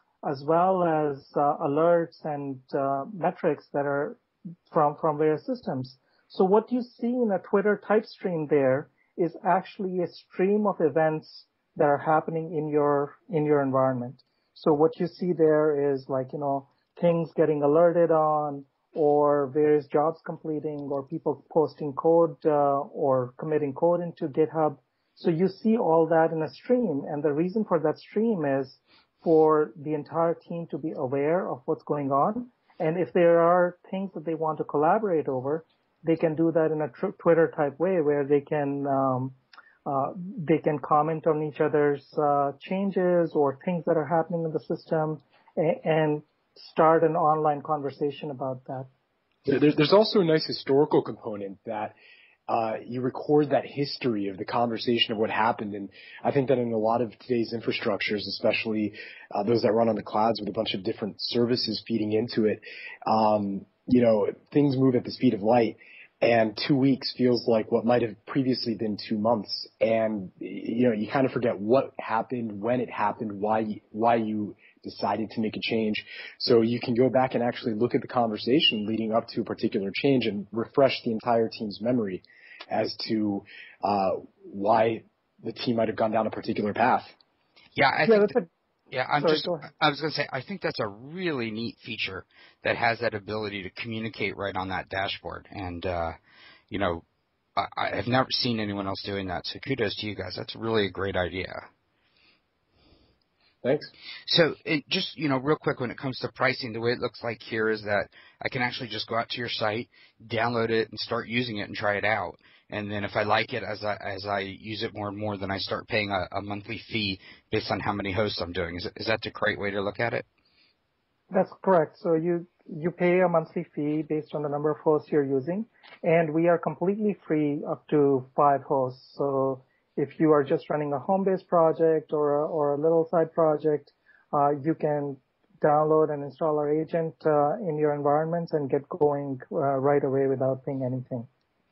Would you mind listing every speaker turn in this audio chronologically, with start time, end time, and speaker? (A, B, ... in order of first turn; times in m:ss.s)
0:00.2-0:48.9 A
0:49.5-0:52.0 B
0:52.5-1:27.1 B
1:27.8-1:28.3 C
1:28.1-1:28.5 A
1:28.9-1:36.2 C
1:29.2-1:29.7 A
1:36.7-1:37.0 C
1:37.6-1:41.6 C
1:43.6-1:43.9 B
1:44.3-2:00.2 C
2:01.3-2:21.3 A